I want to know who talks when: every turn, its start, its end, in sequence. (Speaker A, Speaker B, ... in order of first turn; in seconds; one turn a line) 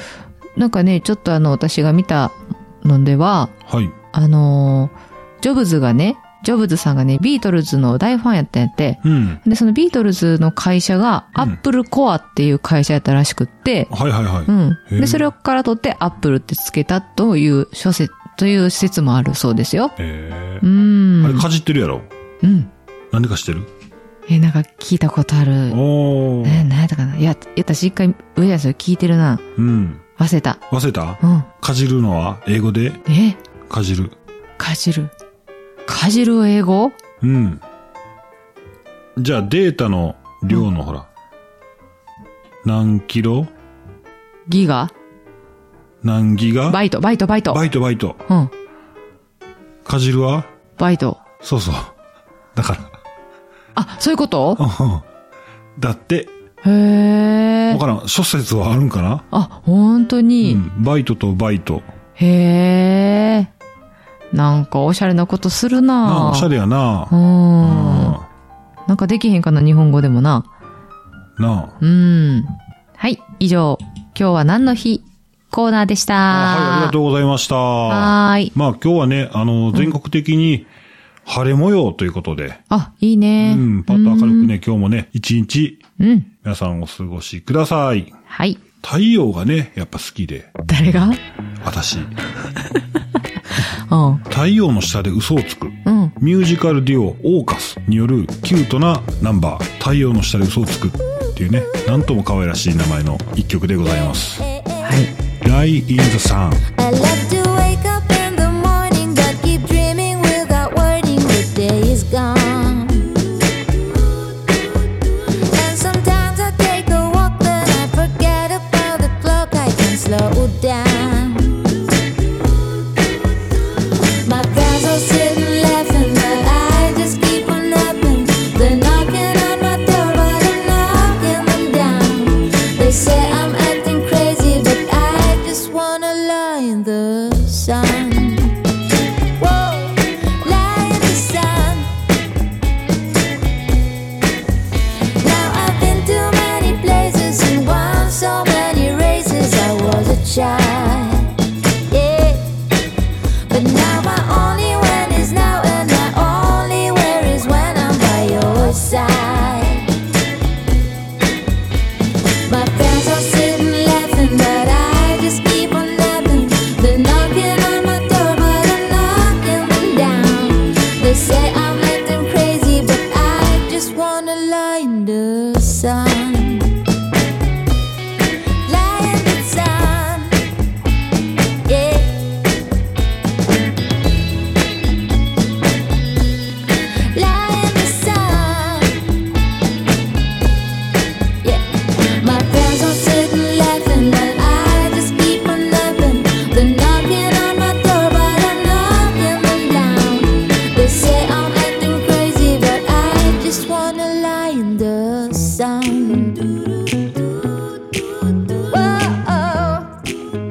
Speaker A: 0.6-3.5
Speaker B: 3.7-3.9
Speaker A: 4.1-13.9
Speaker B: 9.0-9.4
Speaker B: 13.9-15.3
Speaker A: 14.5-19.9
Speaker B: 20.0-20.7
Speaker A: 20.6-21.5
Speaker B: 21.2-22.1
Speaker A: 22.4-22.7
Speaker B: 23.1-23.7
Speaker A: 24.3-25.8
Speaker B: 25.7-26.7
Speaker A: 26.4-29.4
Speaker B: 29.6-30.0
Speaker A: 30.2-30.6
Speaker B: 30.7-33.0
Speaker A: 31.2-31.5
Speaker A: 33.1-33.4
Speaker B: 33.7-34.1
Speaker A: 34.6-35.1
Speaker A: 35.9-37.0
Speaker B: 37.2-37.6
Speaker B: 39.2-41.1
Speaker B: 42.6-43.5
Speaker A: 44.5-44.9
Speaker B: 46.0-46.8
Speaker A: 46.7-47.6
Speaker B: 47.5-48.2
Speaker A: 48.3-48.5
Speaker B: 49.9-50.5
Speaker A: 50.8-51.2
Speaker B: 51.4-51.9
Speaker B: 52.5-52.9
Speaker A: 53.8-54.6
Speaker B: 54.6-55.0
Speaker B: 55.8-56.3
Speaker A: 56.6-57.8
Speaker B: 57.7-59.3
Speaker A: 59.3-60.6
Speaker B: 60.4-61.9
Speaker A: 62.2-63.5
Speaker A: 64.3-66.5
Speaker B: 66.0-68.3
Speaker A: 67.1-68.2
Speaker A: 68.9-70.5
Speaker B: 71.4-71.8
Speaker A: 71.8-77.0
Speaker B: 76.3-80.7
Speaker A: 77.9-78.5
Speaker B: 81.3-82.6
Speaker A: 82.7-84.5
Speaker B: 83.4-85.8
Speaker A: 86.0-86.3
Speaker B: 86.4-88.1
Speaker A: 88.3-88.6
Speaker B: 88.8-90.5
Speaker A: 90.7-91.2
Speaker B: 91.6-92.1
Speaker A: 93.6-94.2
Speaker B: 94.3-104.5
Speaker A: 95.9-96.2
Speaker A: 104.8-105.1
Speaker B: 105.4-106.7
Speaker C: 106.8-113.2
Speaker C: 115.5-121.8
Speaker C: 124.2-138.6
Speaker C: 139.4-142.0
Speaker C: 145.2-152.6
Speaker C: 153.5-160.0
Speaker C: 162.4-176.8
Speaker C: 178.7-180.5
Speaker C: 181.7-182.4
Speaker C: 187.1-189.1
Speaker C: 191.4-207.0
Speaker C: 208.5-210.0